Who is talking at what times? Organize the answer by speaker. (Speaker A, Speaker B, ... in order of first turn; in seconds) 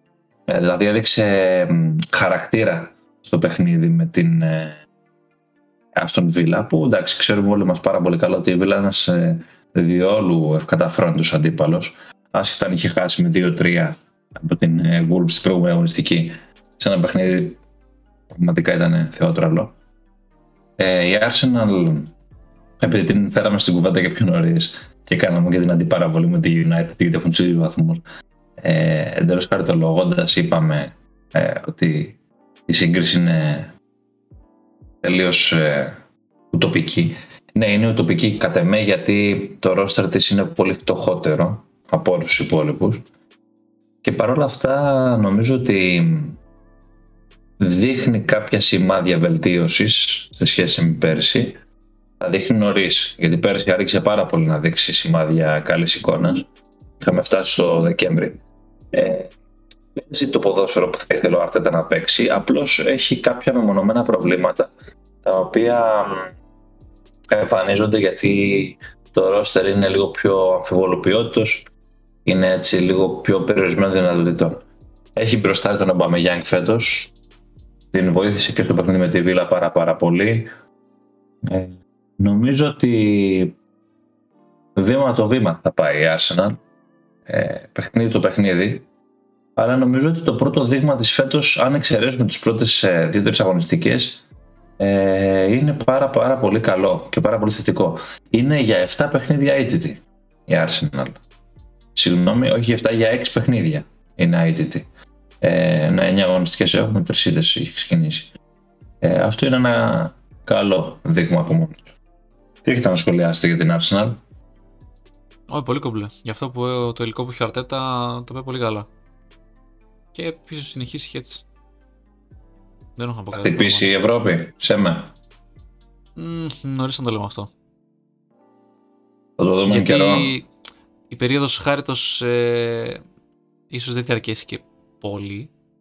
Speaker A: 0.5-4.8, 6.0-17.6, 18.3-19.7, 20.8-22.1, 22.8-28.0, 28.6-32.2, 32.7-33.7, 35.0-36.0, 36.5-43.0, 44.0-46.4, 47.6-51.6, 52.2-56.5, 57.0-58.4, 58.9-59.3, 60.0-64.7, 65.2-66.3, 67.3-71.7, 72.2-74.6, 75.2-77.1, 77.9-80.5, 81.4-83.5, 84.8-86.6, 87.3-88.9, 89.6-94.2, 94.8-101.2, 102.0-104.9, 105.4-108.3, 109.0-111.9, 112.6-114.2, 123.3-125.1, 129.4-130.3
Speaker B: 115.5-118.9, 120.1-121.4, 123.0-123.9, 126.2-127.5, 129.7-130.5, 131.1-133.0, 133.7-135.5